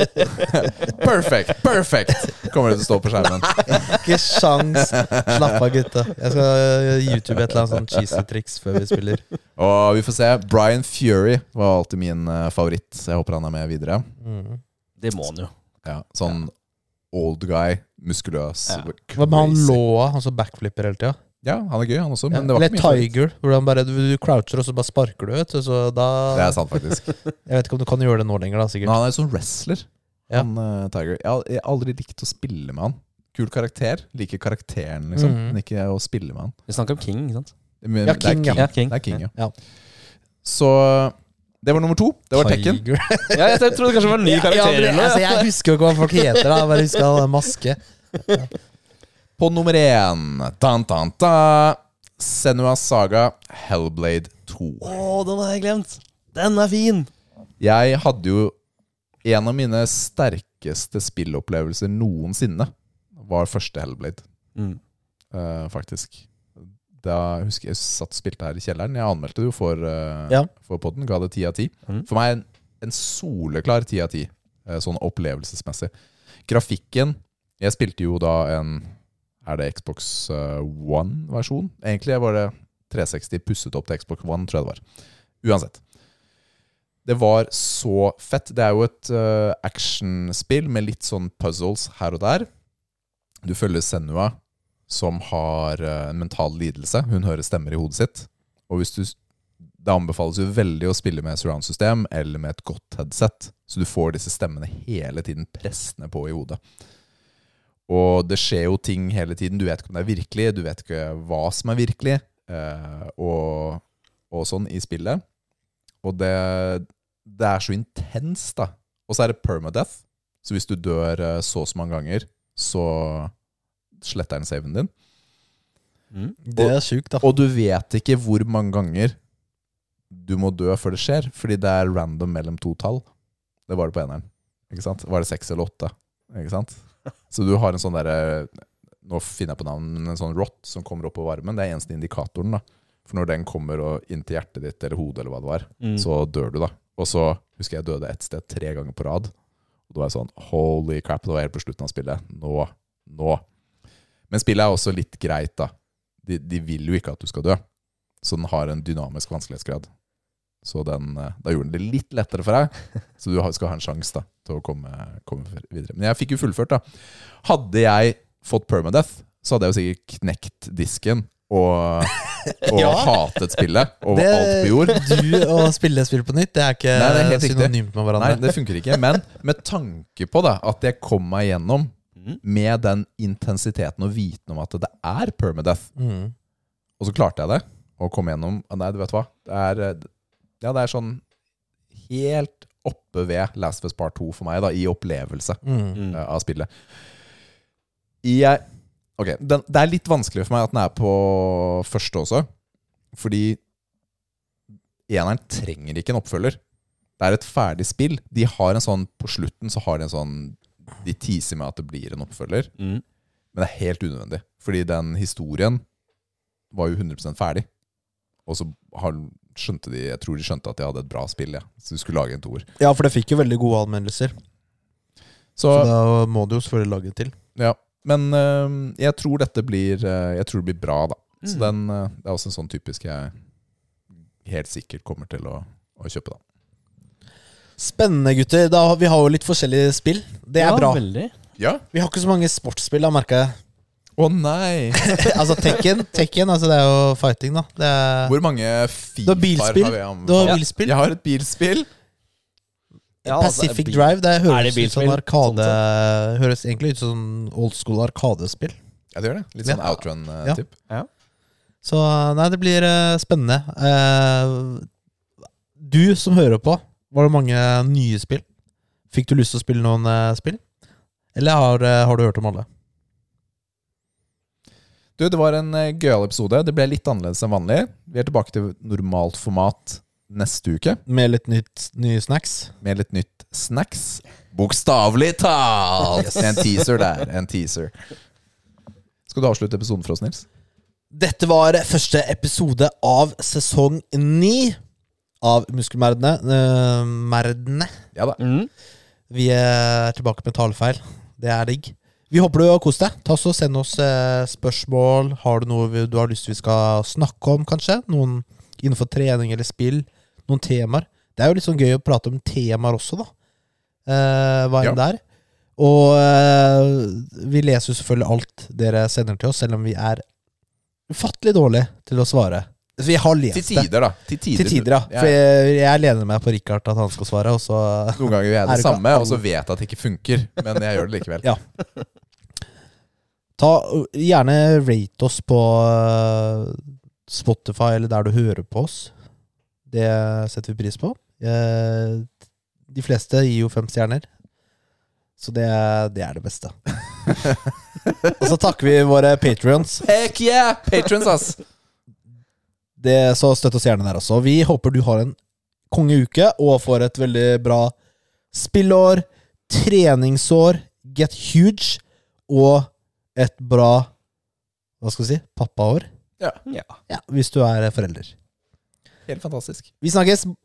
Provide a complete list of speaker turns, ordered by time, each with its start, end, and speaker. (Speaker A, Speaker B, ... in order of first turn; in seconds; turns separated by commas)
Speaker A: 0.4-4.0, Speaker B: 3.7-9.2, Speaker A: 4.7-5.6, Speaker A: 7.5-8.1, Speaker A: 9.6-14.1, Speaker B: 14.2-14.6, Speaker C: 15.0-15.5, Speaker A: 15.8-16.5, Speaker A: 17.1-19.8, Speaker B: 19.1-21.2, Speaker A: 21.4-23.1, Speaker B: 22.3-26.6, Speaker A: 26.3-27.1, Speaker B: 27.4-29.0, Speaker A: 28.8-36.5, Speaker B: 35.1-35.6, Speaker C: 36.7-37.5, Speaker A: 37.8-39.3, Speaker B: 38.0-38.7, Speaker C: 38.5-39.2, Speaker A: 40.4-42.8, Speaker B: 42.4-48.5, Speaker C: 43.3-47.0, Speaker A: 49.4-55.0, Speaker C: 54.8-57.1, Speaker A: 57.6-58.5, Speaker A: 59.2-64.2, Speaker A: 65.3-75.9, Speaker A: 76.5-78.9, Speaker A: 79.4-84.8, Speaker A: 85.4-85.8, Speaker A: 87.0-92.5, Speaker A: 93.4-94.3, Speaker A: 94.9-99.2, Speaker A: 99.8-106.6, Speaker A: 107.9-115.2, Speaker A: 116.0-123.3, Speaker A: 124.0-124.9, Speaker B: 126.4-127.3, Speaker A: 126.6-129.2, Speaker A: 130.1-133.1, Speaker A: 133.7-136.8, Speaker A: 137.3-149.3, Speaker C: 145.8-146.1, Speaker A: 149.9-153.4, Speaker A: 154.3-157.6, Speaker A: 158.2-159.9, Speaker A: 160.6-175.2, Speaker B: 172.6-173.1, Speaker B: 174.1-178.6, Speaker A: 176.9-185.9, Speaker B: 185.9-186.3, Speaker A: 187.0-190.1, Speaker A: 190.6-191.2, Speaker A: 192.1-195.6, Speaker B: 195.6-196.0, Speaker C: 195.9-196.2, Speaker A: 196.1-196.9, Speaker A: 198.2-198.6, Speaker A: 199.2-202.5, Speaker A: 203.1-203.6, Speaker A: 205.1-206.6, Speaker A: 207.2-212.7, Speaker A: 213.5-215.8, Speaker A: 216.7-217.7, Speaker A: 218.4-222.7, Speaker B: 222.8-224.3, Speaker A: 225.6-225.9, Speaker B: 225.7-227.3, Speaker A: 227.6-233.3, Speaker A: 234.4-236.4, Speaker B: 237.8-241.0, Speaker C: 240.6-241.3, Speaker A: 241.6-241.8, Speaker B: 241.9-243.5, Speaker A: 244.2-245.4, Speaker B: 245.1-248.3, Speaker A: 248.2-251.9, Speaker B: 249.2-250.9, Speaker C: 253.2-255.8, Speaker B: 253.2-258.8, Speaker A: 259.1-260.7, Speaker B: 259.6-260.6, Speaker B: 261.8-264.9, Speaker B: 265.8-268.4, Speaker B: 269.1-270.6, Speaker B: 271.3-272.6, Speaker A: 275.2-281.0, Speaker B: 281.1-282.7, Speaker A: 282.8-287.9, Speaker A: 289.3-290.4, Speaker B: 291.1-294.8, Speaker B: 295.4-297.9, Speaker C: 298.4-298.7, Speaker B: 299.3-313.3, Speaker B: 314.1-315.2, Speaker B: 315.8-320.2, Speaker B: 321.1-323.9, Speaker A: 323.5-325.3, Speaker B: 324.5-329.4, Speaker A: 328.2-331.5, Speaker B: 333.6-339.1, Speaker B: 339.9-342.3, Speaker B: 342.9-344.3, Speaker B: 345.4-346.7, Speaker A: 348.1-348.4, Speaker B: 348.4-350.0, Speaker A: 350.0-351.6, Speaker B: 353.0-355.4, Speaker B: 355.9-357.9, Speaker B: 358.5-364.1, Speaker B: 365.0-366.1, Speaker C: 366.6-367.0, Speaker B: 367.1-368.3, Speaker A: 369.3-369.9, Speaker B: 370.0-370.5